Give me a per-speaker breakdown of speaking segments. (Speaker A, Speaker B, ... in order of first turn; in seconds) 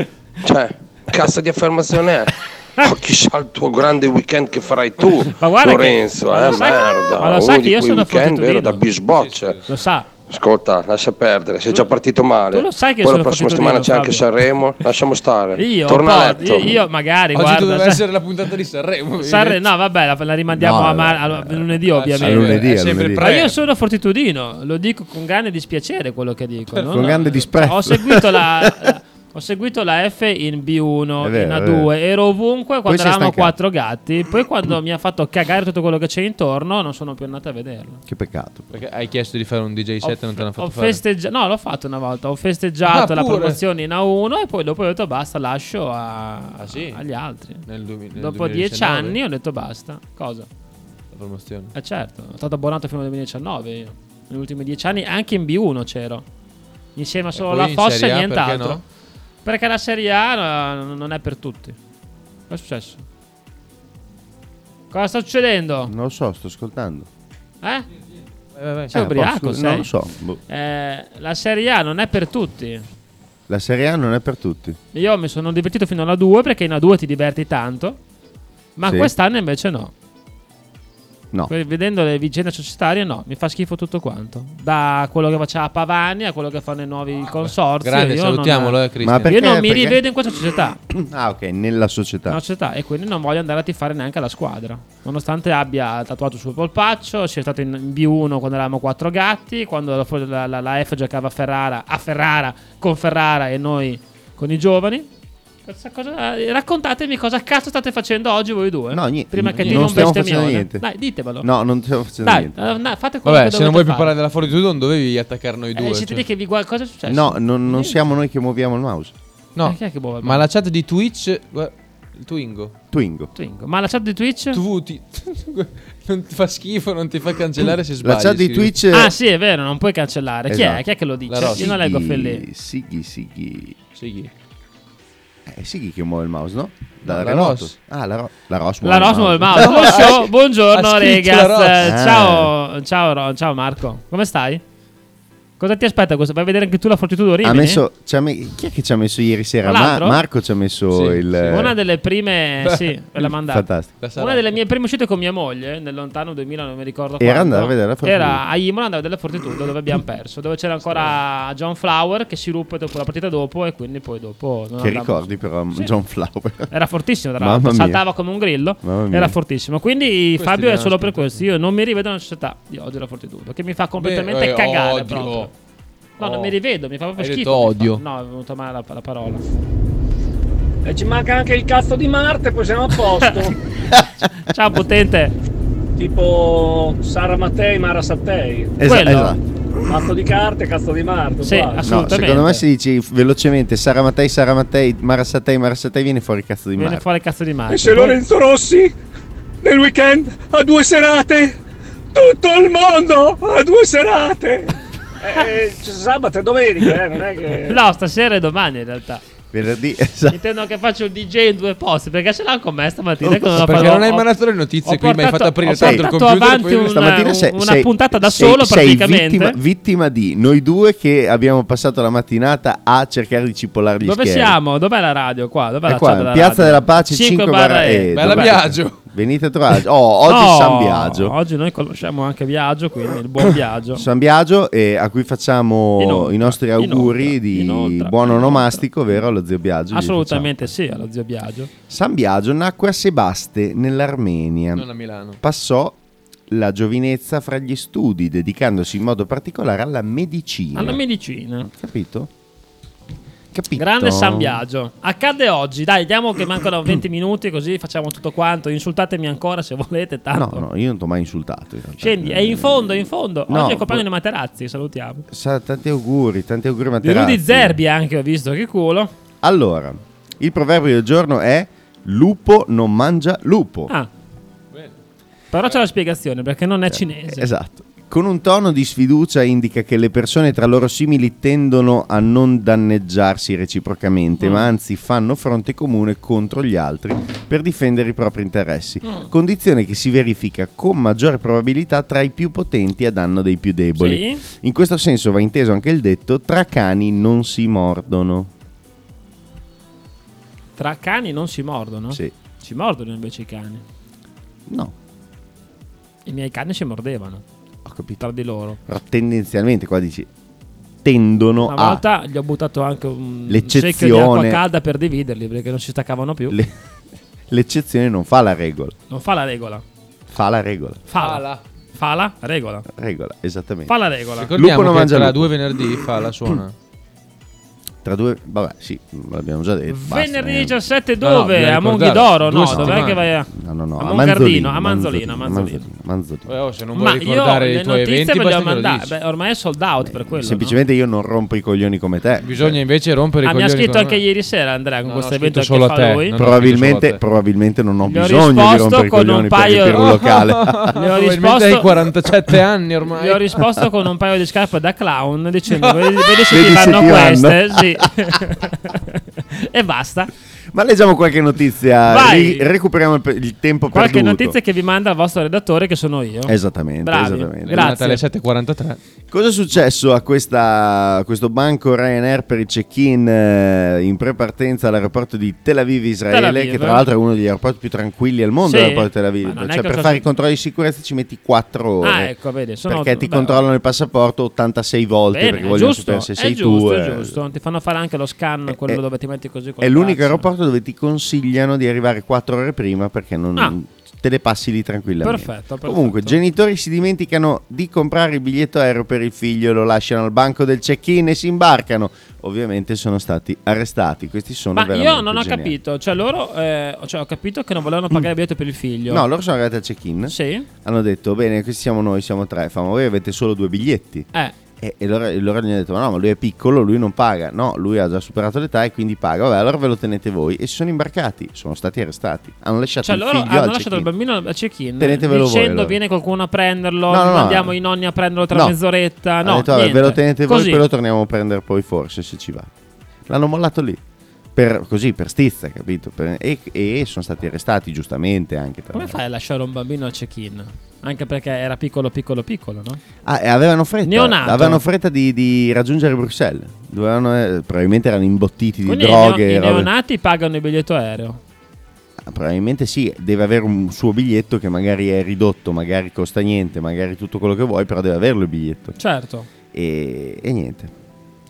Speaker A: 0.4-9.6, 10.3-16.9
Speaker B: 5.2-8.8, 9.7-10.1, 12.5-14.3, 15.6-18.0, 19.2-38.0, 40.0-50.5, 51.8-56.2, 57.0-58.8, 59.5-61.8, 62.5-63.0, 64.9-65.9, 67.6-67.9, 68.9-69.9, 70.5-72.8, 74.9-78.0, 78.8-79.9, 81.5-90.8, 92.3-105.1, 105.7-111.5, 112.2-114.1, 115.8-118.0, 119.6-120.5, 123.4-124.6, 128.9-132.4, 138.8-144.6, 145.6-147.8, 149.7-150.2, 151.5-165.9, 166.7-175.5, 176.2-179.4, 184.2-185.4, 188.8-189.4, 191.4-192.6, 196.8-198.2, 207.7-209.2, 210.3-214.3, 214.8-219.6, 224.0-228.6, 230.3-234.1, 236.0-238.9, 239.9-241.7, 250.8-251.7, 253.8-260.6, 262.0-265.3, 267.0-269.1, 275.5-277.5, 284.4-284.7, 294.0-294.4, 300.8-303.8, 306.3-307.4, 308.2-308.8, 311.6-316.6, 319.1-319.8, 321.1-321.4, 321.9-322.9, 323.9-324.5, 329.9-335.9, 336.9-340.8, 343.4-346.4, 348.1-350.1, 350.9-351.9, 353.1-360.3, 362.1-362.7, 363.9-368.2, 376.3-377.1, 378.6-380.2, 382.0-383.7, 385.3-390.5, 395.2-396.4, 404.7-409.2, 410.3-410.7, 423.0-430.9, 438.9-443.0, 444.1-444.8, 448.9-451.4, 459.0-459.5
Speaker C: 9.1-9.6, 17.4-19.7, 21.9-23.6, 26.8-27.4, 38.7-41.0, 42.9-43.6, 46.6-47.0, 47.7-49.2, 51.1-51.7, 57.4-58.8, 68.5-68.9, 87.4-89.4, 109.5-110.1, 113.2-116.2, 119.5-122.7, 124.5-128.8, 131.3-131.7, 133.9-134.3, 137.0-137.7, 139.6-141.9, 150.9-151.7, 152.6-152.9, 154.0-154.5, 170.4-171.4, 174.0-175.5, 176.2-176.6, 177.2-178.0, 213.5-216.9, 228.1-229.0, 244.8-245.4, 321.2-321.6, 324.4-326.7, 331.2-333.2, 336.5-339.1, 342.4-344.2, 345.1-347.2, 349.9-353.6, 367.7-369.0
Speaker D: 20.5-23.2, 26.8-28.9, 31.2-31.9, 32.9-33.5, 38.1-38.7, 65.9-67.1, 68.9-70.4, 73.5-74.8, 78.8-79.1, 89.0-90.0, 90.9-92.4, 108.9-110.9, 111.4-112.5, 117.1-119.1, 122.9-123.3, 127.6-129.1, 130.5-130.8, 131.4-133.8, 135.5-140.2, 141.8-142.5, 147.4-151.7, 153.4-153.9, 157.2-158.4, 164.8-166.7, 167.4-168.0, 168.8-169.4, 188.8-189.4, 191.8-197.0, 209.5-210.4, 213.2-213.6, 215.7-224.6, 225.9-231.3, 233.9-240.7, 241.9-244.9, 245.4-246.0, 246.5-251.0, 251.6-252.3, 253.5-254.6, 260.3-264.0, 265.3-267.8, 269.4-273.9, 276.9-298.5, 304.7-304.9, 307.9-308.2, 308.9-310.3, 311.0-312.0, 313.5-314.6, 317.5-318.9, 320.3-321.0, 322.9-323.9, 324.5-325.5, 328.0-330.8, 332.7-336.5, 340.0-342.8, 346.4-350.9, 356.5-358.1, 360.7-364.6, 366.5-367.9, 369.3-382.3, 382.9-387.4, 388.7-389.0, 389.8-405.8, 409.1-414.3, 414.8-424.1, 425.0-426.0, 427.1-427.8, 428.5-428.8, 429.4-432.7, 433.3-434.0, 434.6-439.2, 443.2-449.9, 452.2-458.9, 459.7-460.9
Speaker E: 180.8-183.6, 186.0-188.8, 189.9-191.9, 197.7-198.9, 199.6-201.6, 202.1-207.8